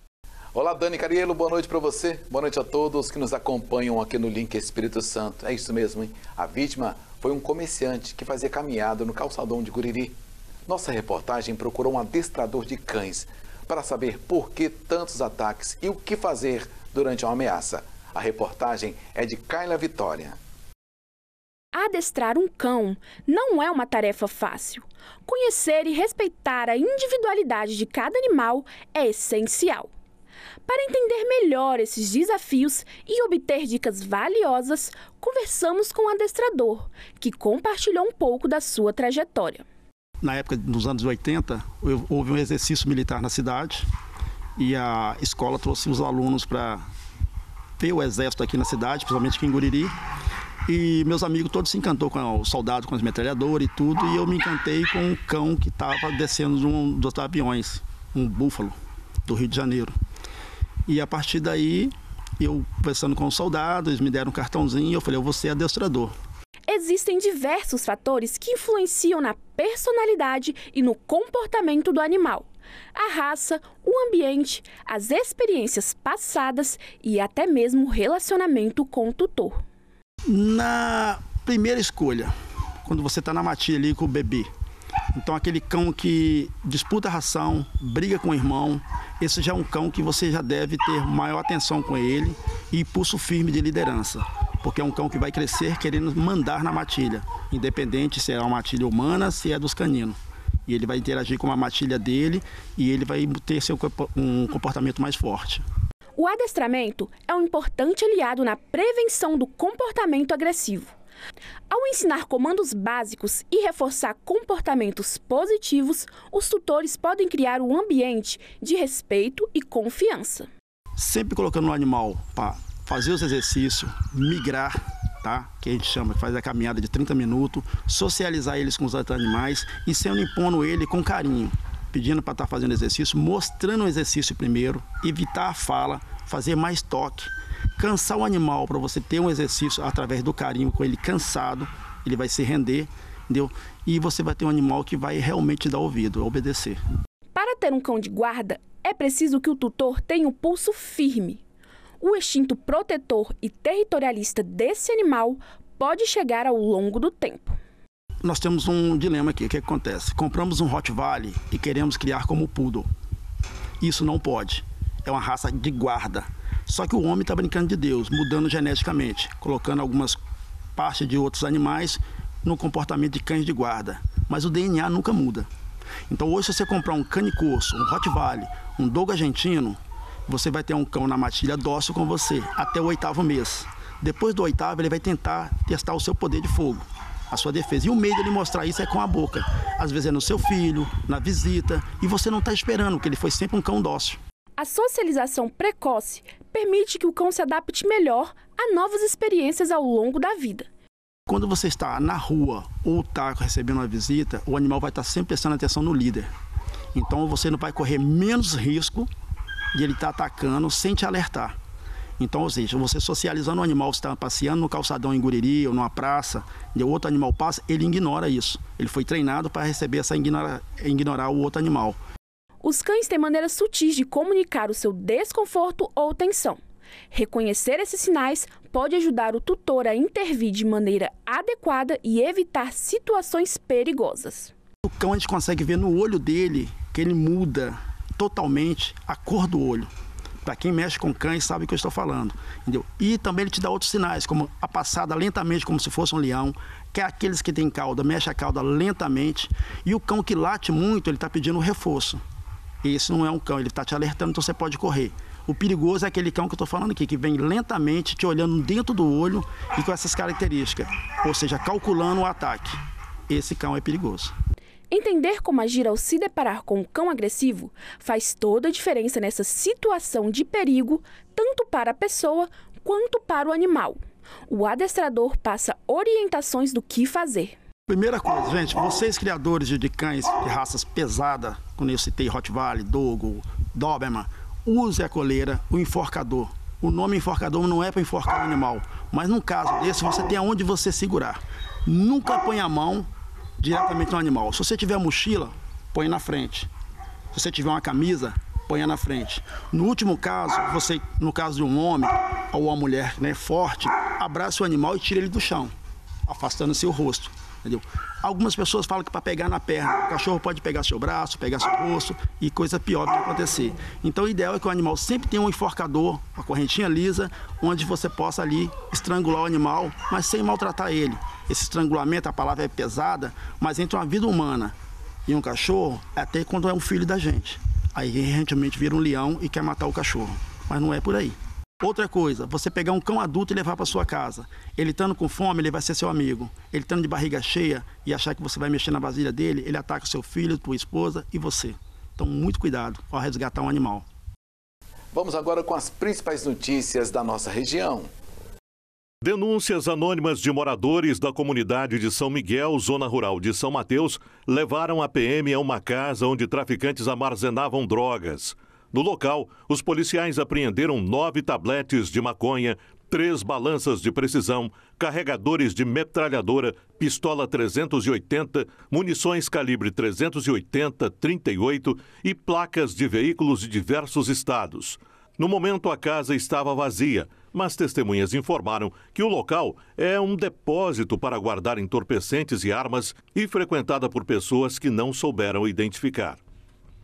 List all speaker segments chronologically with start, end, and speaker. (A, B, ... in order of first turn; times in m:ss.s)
0:00.5-0:10.2 A
0:10.7-0:20.4 A
0:21.7-0:29.9 B
0:30.7-0:39.6 B
0:40.2-0:43.9 C
0:44.6-0:46.8 C
0:47.8-0:49.9 C
0:50.7-0:58.8 C
0:59.3-0:59.9 C
1:00.9-1:06.1 C
1:06.7-1:19.6 B
1:20.3-1:22.3 C
1:22.8-1:24.5 C
1:25.1-1:45.6 C
1:46.2-1:50.9 B
1:51.7-2:00.5 B
2:01.0-2:26.8 C
2:27.4-2:31.4 B
2:32.0-2:37.6 B
2:38.2-2:42.9 C
2:43.8-2:50.2 C
2:50.8-2:55.5 C
2:56.1-3:14.2 C
3:14.6-3:20.7 B
3:21.3-3:26.3 C
3:26.9-3:29.1 C
3:29.7-3:31.6 C
3:32.2-3:42.0 C
3:42.6-3:46.6 B
3:47.1-3:54.5 B
3:54.9-3:59.9 C
4:00.4-4:12.2 C
4:12.8-4:22.8 C
4:23.3-4:24.3 C
4:24.9-4:37.6 B
4:37.9-4:53.1 C
4:53.6-4:56.7 C
4:57.3-5:05.7 C
5:06.3-5:24.7 C
5:25.3-5:44.1 C
5:45.1-5:48.1 A
5:49.2-6:26.4 D